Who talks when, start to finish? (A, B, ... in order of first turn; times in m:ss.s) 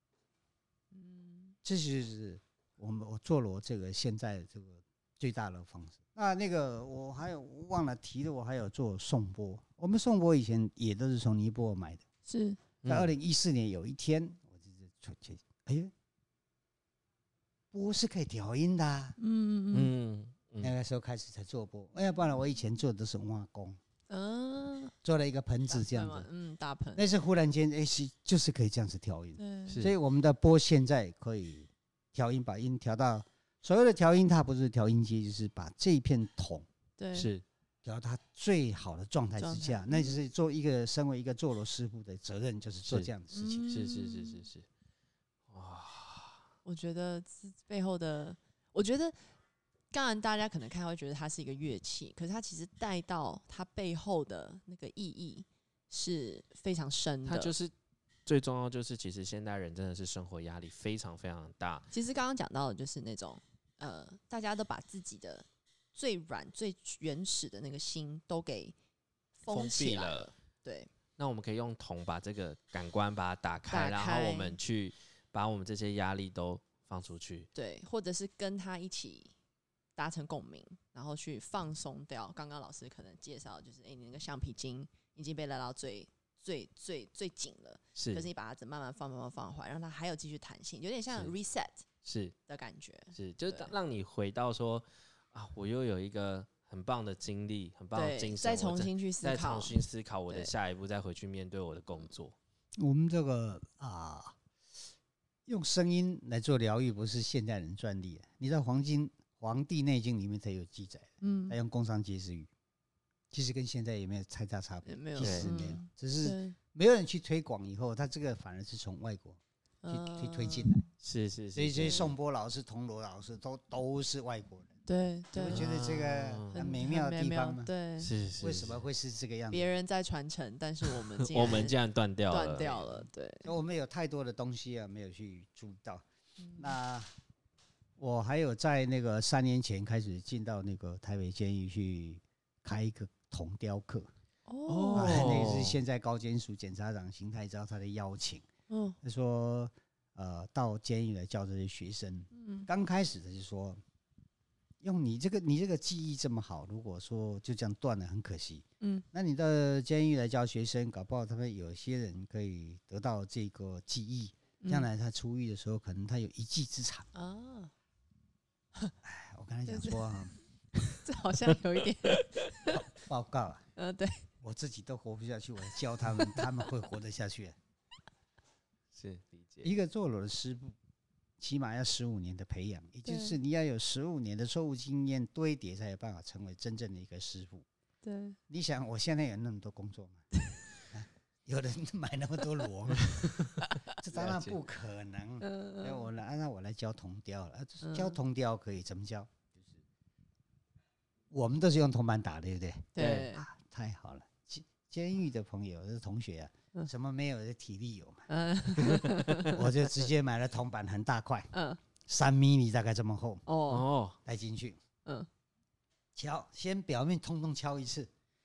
0:00.9-0:01.5 A
0:01.6-0:12.0 B
0:12.2-0:12.6 A
0:12.8-0:13.1 C
0:12.8-0:15.9 B
0:17.7-0:19.2 B
0:19.2-0:19.9 A
0:19.7-0:20.7 C
0:20.6-0:23.8 B
0:24.1-0:24.9 A
0:25.0-0:26.3 B
0:25.7-0:27.0 A
0:27.0-0:36.7 B
0:29.4-0:29.8 A
0:29.7-0:29.9 C
0:37.0-0:37.3 A
0:37.1-0:37.4 C
0:37.8-0:43.6 B
0:39.4-0:40.2 A
0:43.3-0:44.5 A
0:43.7-0:44.6 C
0:45.5-0:46.4 C
0:46.6-0:49.2 A
0:49.9-0:57.5 A
0:57.2-0:57.7 C
0:58.2-1:01.9 C
1:01.9-1:08.7 A
1:09.4-1:10.9 A
1:09.5-1:10.3 C
1:11.2-1:17.5 C
1:13.7-1:14.6 A
1:17.5-1:19.3 A
1:20.0-1:31.8 A
1:28.0-1:28.3 C
1:32.0-1:32.3 C
1:32.5-1:33.7 A
1:33.1-1:42.3 C
1:37.9-1:40.5 A
1:42.8-1:44.4 B
1:45.4-1:52.5 B
1:51.2-1:51.6 A
1:53.3-2:00.8 B
1:54.8-1:56.6 A
1:55.2-1:55.5 C
1:59.8-2:00.8 A
2:01.0-2:02.1 C
2:01.5-2:04.8 B
2:04.8-2:05.6 A
2:05.3-2:07.7 B
2:05.4-2:06.5 C
2:06.5-2:08.1 A
2:08.0-2:08.8 C
2:08.4-2:09.7 B
2:09.5-2:11.8 A
2:10.8-2:13.0 C
2:12.3-2:13.5 A
2:13.4-2:16.0 B
2:16.4-2:16.7 A
2:16.6-2:17.1 B
2:18.0-2:24.1 B
2:24.5-2:25.5 A
2:24.7-2:25.8 C
2:24.9-2:28.4 B
2:28.7-2:29.0 A
2:29.0-2:33.8 B
2:32.3-2:32.7 A
2:34.8-2:47.1 B
2:38.8-2:39.0 A
2:44.6-2:44.9 A
2:47.1-2:47.7 A
2:49.0-2:50.3 B
2:49.6-2:50.2 A
2:51.0-2:52.8 A
2:52.7-2:53.6 B
2:53.8-2:54.2 A
2:54.4-2:57.6 B
2:58.9-2:59.7 C
2:59.6-3:00.8 B
3:01.4-3:07.6 B
3:03.0-3:03.4 A
3:08.0-3:08.4 A
3:08.5-3:10.2 B
3:10.9-3:13.3 B
3:12.9-3:14.6 C
3:14.0-3:19.8 B
3:15.4-3:16.0 A
3:17.8-3:18.2 A
3:21.3-3:31.5 B
3:22.9-3:23.5 A
3:23.0-3:23.3 C
3:28.3-3:29.6 A
3:31.5-3:31.8 A
3:32.0-3:33.4 B
3:33.4-3:33.9 A
3:33.7-3:34.2 C
3:34.2-3:34.8 B
3:36.1-3:38.1 B